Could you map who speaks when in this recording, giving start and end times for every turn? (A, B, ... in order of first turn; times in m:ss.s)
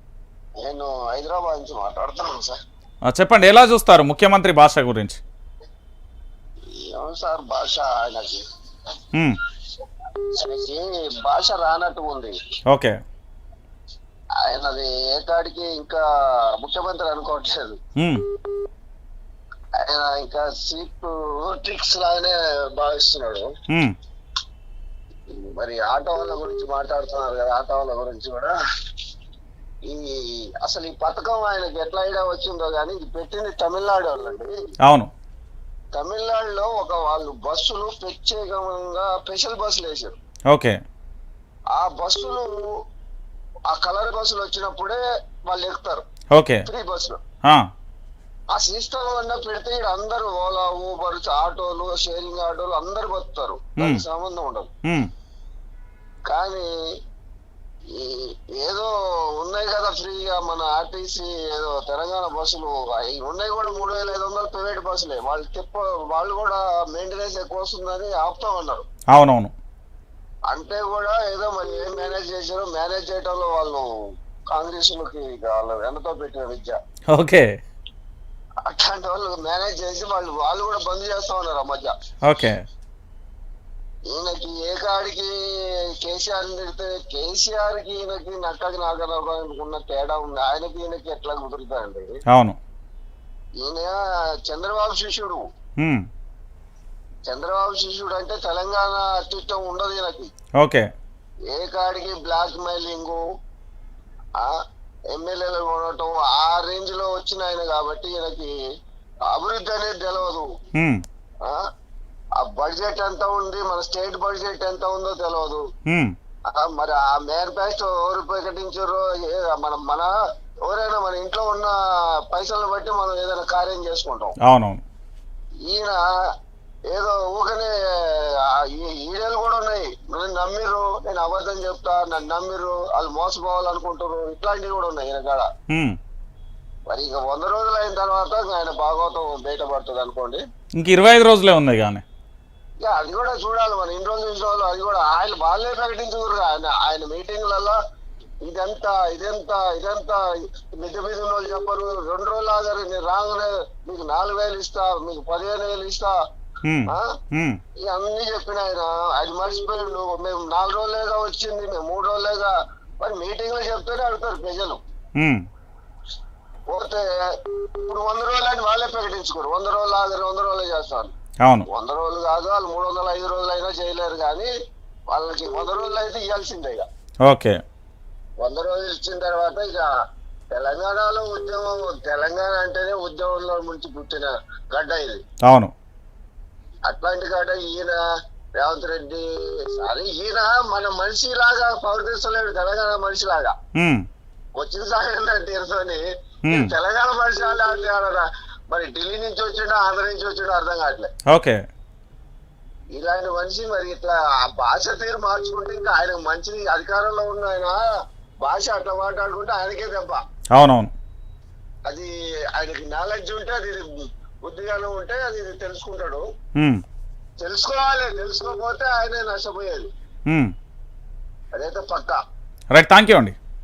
0:00.6-0:02.6 A
0:03.1-0:05.2 B
0:06.9-0:08.4 A
0:10.3-0:12.3 A
0:14.4-0:16.0 A
0:16.6-0:17.8 A
0:19.8-0:23.5 A
0:23.7-0:24.0 B
0:25.4-0:28.5 A
0:29.8-0:34.5 A
0:34.8-0:35.1 B
0:35.9-0:40.2 A
0:40.5-0:40.8 B
0:41.7-0:42.5 A
0:43.7-0:46.0 A
0:46.3-0:46.6 B
0:46.7-0:47.2 A
0:48.5-0:54.7 A
0:56.3-0:56.7 A
0:58.0-1:08.9 A
1:09.1-1:09.5 B
1:10.5-1:13.8 A
1:14.5-1:16.8 A
1:17.1-1:17.5 B
1:18.7-1:21.9 A
1:22.2-1:22.6 B
1:24.1-1:25.3 A
1:26.0-1:32.2 A
1:32.3-1:32.6 B
1:33.6-1:35.4 A
1:35.8-1:36.0 B
1:37.3-1:40.3 A
1:40.6-1:40.8 B
1:41.5-1:43.2 A
1:45.1-1:48.6 A
1:49.3-1:50.5 A
1:50.8-1:51.0 B
1:52.4-1:55.6 A
1:55.9-1:56.1 B
1:56.6-2:00.1 A
2:00.7-2:01.8 A
2:02.3-2:04.3 A
2:04.4-2:04.8 B
2:05.7-2:06.0 A
2:06.9-2:15.5 A
2:15.7-2:16.0 B
2:16.9-2:20.4 A
2:20.8-2:22.0 B
2:22.8-2:27.8 A
2:28.4-2:30.2 A
2:30.8-2:36.1 A
2:36.6-2:37.6 B
2:37.8-2:44.8 A
2:46.7-2:51.1 A
2:51.7-2:54.5 A
2:55.1-2:56.8 A
2:57.2-2:57.6 B
2:58.4-2:59.9 A
3:00.5-3:05.2 A
3:05.4-3:05.7 B
3:06.9-3:08.0 A
3:08.6-3:13.5 A
3:13.8-3:14.0 B
3:14.6-3:21.1 A
3:21.3-3:21.6 B
3:22.9-3:27.8 A
3:28.4-3:30.2 A
3:30.5-3:30.9 B
3:31.9-3:33.8 A
3:34.4-3:36.2 A
3:37.4-3:39.9 A
3:41.5-3:42.2 A
3:42.7-3:43.4 B